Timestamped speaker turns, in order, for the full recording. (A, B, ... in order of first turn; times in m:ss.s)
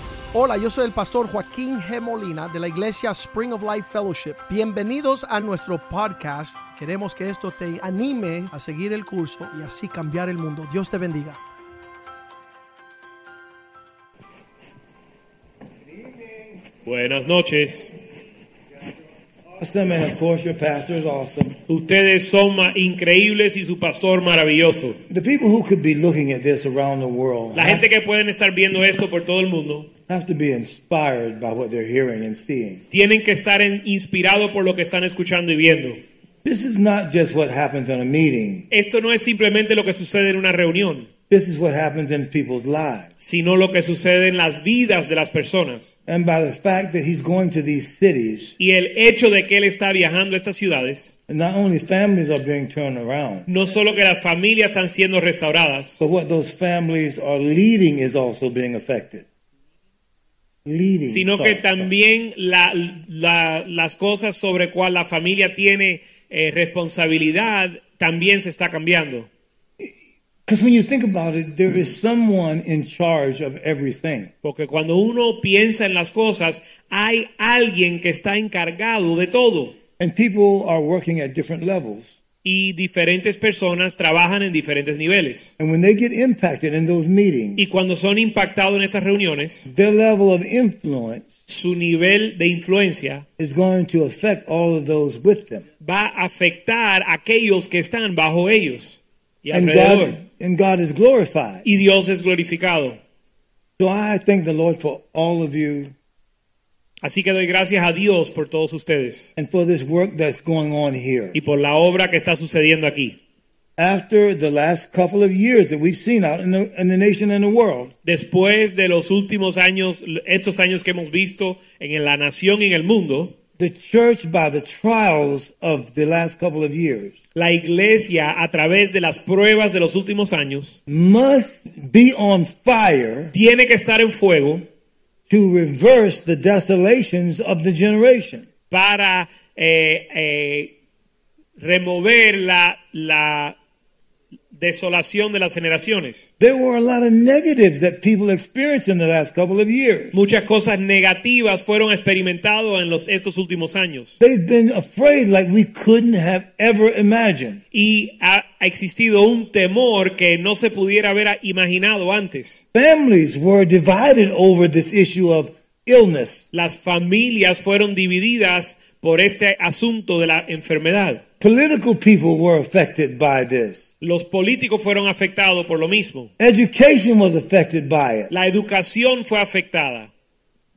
0:00.3-0:11.4 A
0:16.8-0:17.9 B
0:19.6-0:21.6 C
0:21.7-0:25.0 B
0:25.1-0:27.8 C
0:27.5-0:29.9 B
0:30.1-0:32.8 C
0:32.9-0:36.0 B
0:36.4-0:38.7 C
0:38.7-0:41.1 B
0:41.3-0:43.1 C
0:43.2-0:46.0 B
0:46.1-0:48.6 C
0:48.6-0:51.1 B
0:51.3-0:53.5 C
0:53.5-0:56.0 B
0:56.0-0:59.2 C
1:00.6-1:01.9 C
1:01.1-1:09.3 B
1:10.5-1:14.3 C
1:14.4-1:19.8 B
1:20.0-1:22.2 C
1:22.4-1:25.5 B
1:25.6-1:27.7 C
1:27.6-1:29.7 B
1:29.7-1:31.3 C
1:31.5-1:33.2 B
1:33.4-1:35.6 C
1:35.8-1:40.2 B
1:39.5-1:41.7 C
1:41.6-1:43.0 B
1:43.8-1:45.9 C
1:47.0-1:49.3 B
1:49.4-1:51.4 C
1:51.3-1:53.2 B
1:53.8-1:57.9 C
1:58.0-2:03.4 B
2:03.6-2:07.2 C
2:07.4-2:10.8 B
2:10.9-2:13.3 C
2:13.3-2:14.7 B
2:15.3-2:18.5 C
2:18.7-2:20.7 B
2:21.6-2:23.6 B
2:24.6-2:26.3 B
2:26.4-2:30.2 C
2:30.1-2:34.2 B
2:34.2-2:37.6 C
2:37.7-2:42.6 B
2:42.7-2:46.4 C
2:46.5-2:51.2 B
2:51.4-2:53.9 C
2:54.0-2:56.3 B
2:56.4-2:58.3 C
2:58.3-3:00.1 B